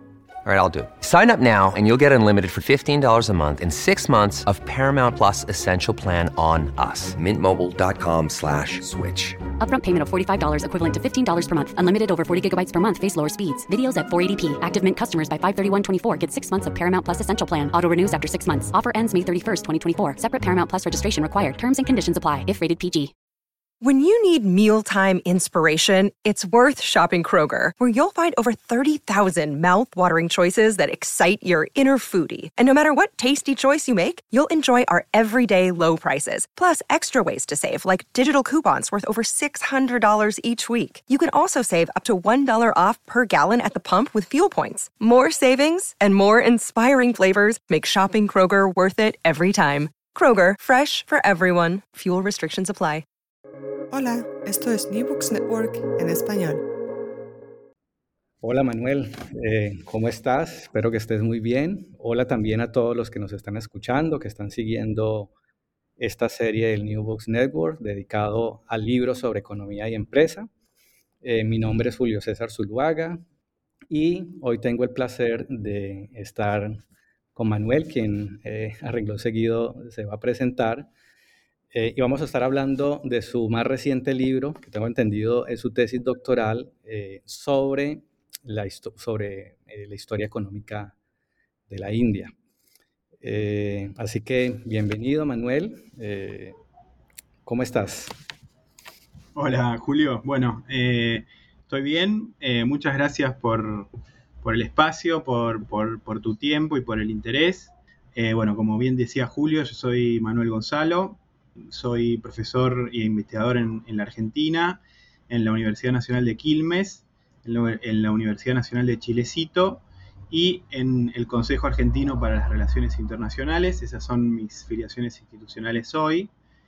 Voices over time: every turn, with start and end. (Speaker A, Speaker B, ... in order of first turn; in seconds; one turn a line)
Speaker A: 0.4-9.5
Speaker B: 9.6-23.1
Speaker C: 23.8-53.0
Speaker D: 53.9-56.6
Speaker E: 58.4-65.3
Speaker E: 66.0-70.5
Speaker E: 71.2-73.2
Speaker E: 73.9-76.8
Speaker E: 77.3-80.9
Speaker E: 81.7-91.0
Speaker E: 91.7-92.3
Speaker E: 93.2-96.5
Speaker E: 97.5-98.1
Speaker F: 99.4-103.9
Speaker F: 104.4-111.2
Speaker F: 111.7-126.3